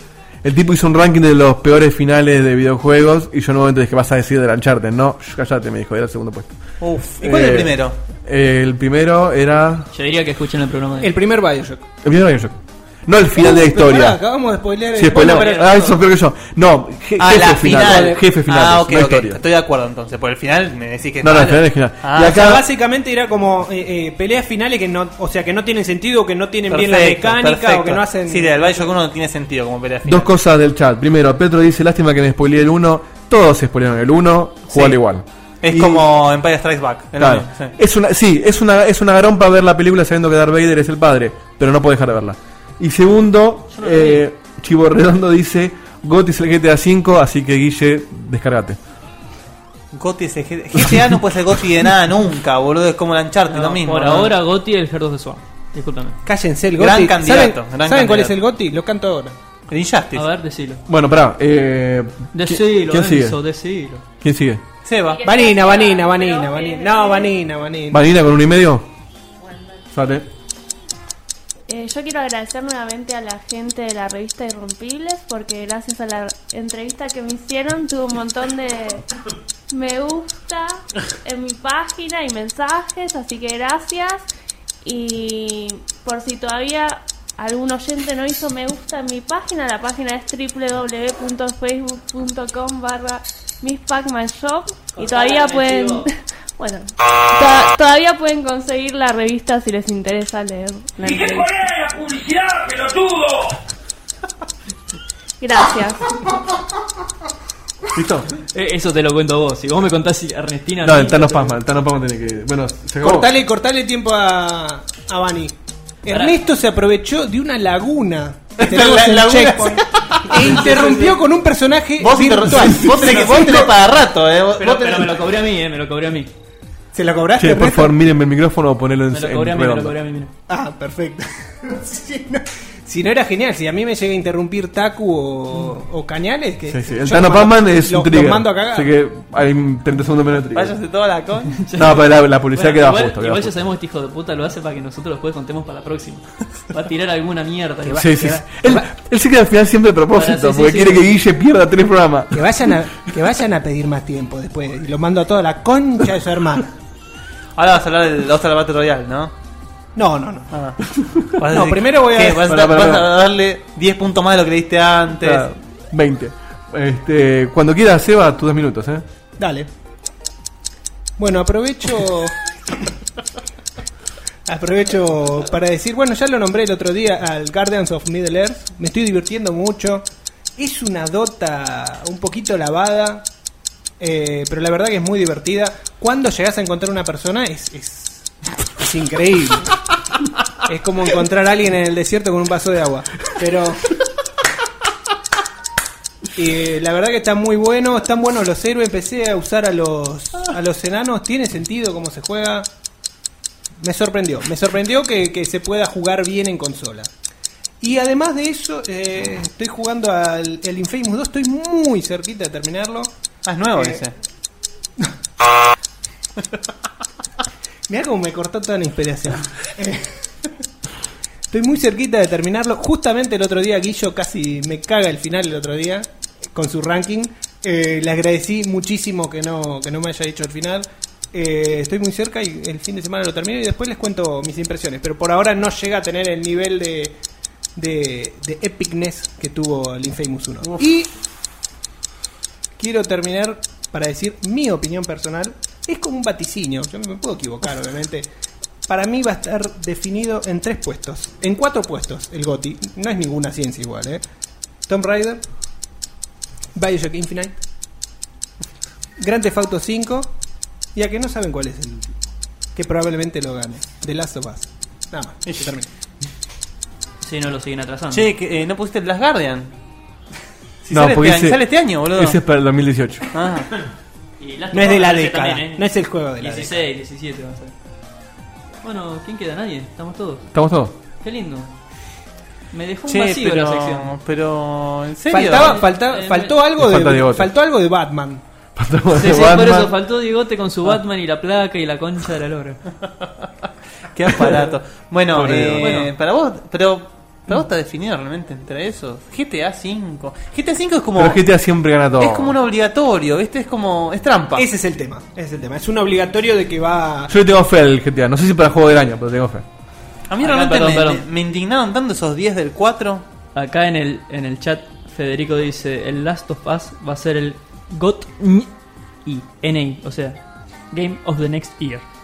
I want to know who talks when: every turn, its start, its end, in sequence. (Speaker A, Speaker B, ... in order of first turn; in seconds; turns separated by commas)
Speaker A: 0.4-6.6, Speaker B: 6.8-8.0, Speaker A: 7.2-9.9, Speaker C: 9.9-11.1, Speaker D: 11.0-11.9, Speaker A: 12.0-14.2, Speaker D: 13.3-15.8, Speaker A: 15.0-19.4, Speaker C: 15.1-16.0, Speaker B: 17.2-22.6, Speaker A: 21.2-22.6, Speaker D: 22.2-28.7, Speaker B: 26.7-30.3, Speaker A: 30.1-36.1, Speaker B: 34.7-35.0, Speaker B: 35.6-37.8, Speaker A: 37.2-48.8, Speaker C: 43.7-44.2, Speaker B: 49.9-54.4, Speaker C: 53.5-56.2, Speaker D: 56.2-59.4, Speaker B: 56.8-58.4, Speaker B: 59.7-60.3, Speaker C: 60.1-60.8, Speaker A: 60.9-63.4, Speaker C: 62.3-64.1, Speaker A: 64.2-64.6, Speaker B: 64.8-65.2, Speaker E: 65.1-67.4, Speaker D: 65.2-68.1, Speaker A: 67.9-68.9, Speaker E: 69.4-69.8, Speaker A: 69.9-70.3, Speaker E: 71.7-79.1, Speaker E: 79.7-84.3, Speaker E: 84.8-101.6, Speaker C: 95.0-96.0, Speaker F: 101.0-103.6, Speaker E: 105.4-106.2, Speaker A: 107.9-108.3, Speaker C: 108.5-111.6, Speaker A: 110.8-113.3, Speaker D: 113.0-123.7, Speaker C: 116.1-116.4, Speaker B: 118.6-120.6, Speaker C: 120.4-121.2, Speaker B: 122.0-125.2, Speaker C: 124.6-126.3, Speaker D: 126.9-128.0, Speaker A: 127.4-130.0, Speaker C: 129.1-130.3, Speaker D: 130.5-138.9, Speaker A: 136.7-140.8, Speaker B: 140.5-141.6, Speaker C: 141.5-148.1, Speaker A: 141.8-143.5, Speaker D: 147.8-148.9, Speaker A: 148.0-152.5, Speaker C: 150.1-151.1, Speaker D: 152.3-156.7, Speaker B: 157.6-159.3, Speaker D: 160.0-160.5, Speaker B: 160.5-160.8, Speaker B: 161.4-165.5, Speaker D: 161.4-162.5, Speaker A: 162.4-163.1, Speaker A: 165.2-169.0, Speaker D: 169.4-169.7, Speaker D: 171.2-172.4, Speaker D: 174.5-180.1, Speaker D: 180.6-183.3, Speaker D: 184.0-189.8, Speaker D: 190.6-193.9, Speaker D: 196.4-202.7, Speaker D: 203.8-207.1, Speaker D: 207.8-213.1, Speaker B: 213.4-214.1, Speaker D: 213.8-214.0, Speaker D: 217.9-220.1, Speaker D: 221.5-237.2, Speaker D: 237.8-241.1, Speaker D: 242.8-248.3, Speaker D: 248.9-254.2, Speaker D: 254.9-255.4, Speaker D: 256.8-257.6, Speaker D: 259.2-260.3, Speaker D: 260.9-262.2, Speaker D: 262.8-265.9, Speaker C: 267.2-268.3, Speaker B: 268.1-269.7, Speaker B: 270.8-272.4, Speaker A: 270.9-273.3, Speaker B: 273.3-273.7, Speaker C: 274.4-277.7, Speaker D: 274.7-276.8, Speaker C: 278.8-280.5, Speaker A: 280.5-281.0, Speaker C: 281.2-281.7, Speaker C: 282.7-284.1, Speaker B: 283.1-285.8, Speaker D: 285.3-288.4, Speaker C: 285.5-286.6, Speaker A: 286.8-287.5, Speaker A: 288.8-289.9, Speaker C: 289.1-292.8, Speaker B: 294.1-301.4, Speaker A: 295.3-295.9, Speaker C: 295.8-296.1, Speaker A: 301.2-302.6, Speaker B: 302.2-304.7, Speaker D: 304.6-307.3, Speaker A: 307.3-309.6, Speaker B: 310.3-313.2, Speaker C: 310.4-311.3, Speaker C: 313.6-318.7, Speaker C: 319.2-320.4, Speaker C: 320.9-322.1